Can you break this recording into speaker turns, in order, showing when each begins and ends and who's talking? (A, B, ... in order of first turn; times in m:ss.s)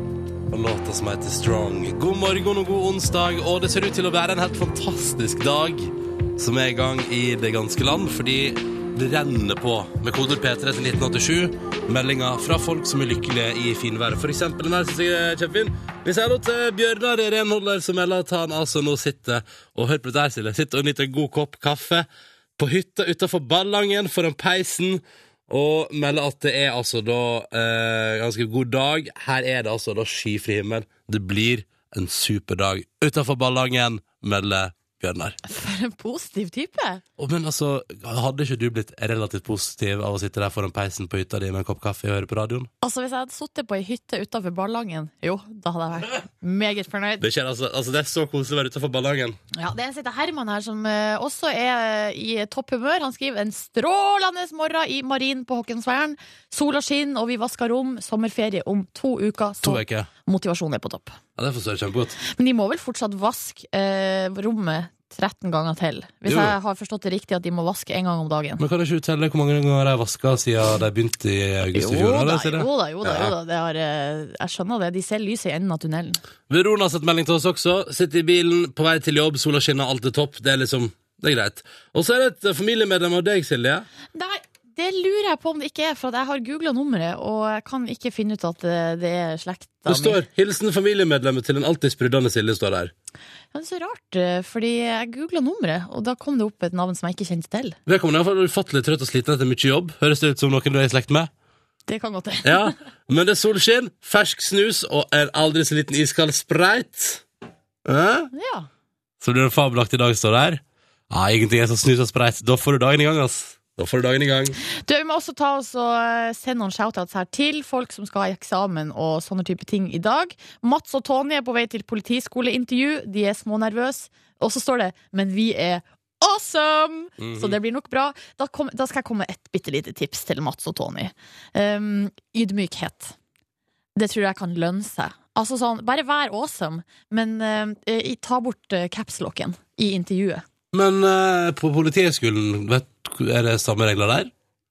0:00.5-0:35.4 A
0:35.4-0:37.0 B
0:37.2-0:42.7 A
0:42.8-0:47.2 B
0:47.2-0:49.4 A
0:49.5-1:01.2 B
0:59.6-1:00.1 A
1:01.4-1:02.2 A
1:02.2-1:08.6 B
1:06.3-1:06.6 A
1:08.6-1:13.3 A
1:11.7-1:16.2 B
1:16.5-1:23.9 A
1:24.2-1:30.2 B
1:29.9-1:32.9 A
1:33.5-1:37.8 B
1:37.9-1:41.3 A
1:41.9-1:42.8 B
1:42.4-1:47.2 A
1:47.9-1:48.3 A
1:48.3-1:48.7 B
1:49.2-1:54.6 A
1:54.7-2:13.2 B
2:07.2-2:07.6 A
2:14.0-2:20.4 B
2:20.7-2:24.3 A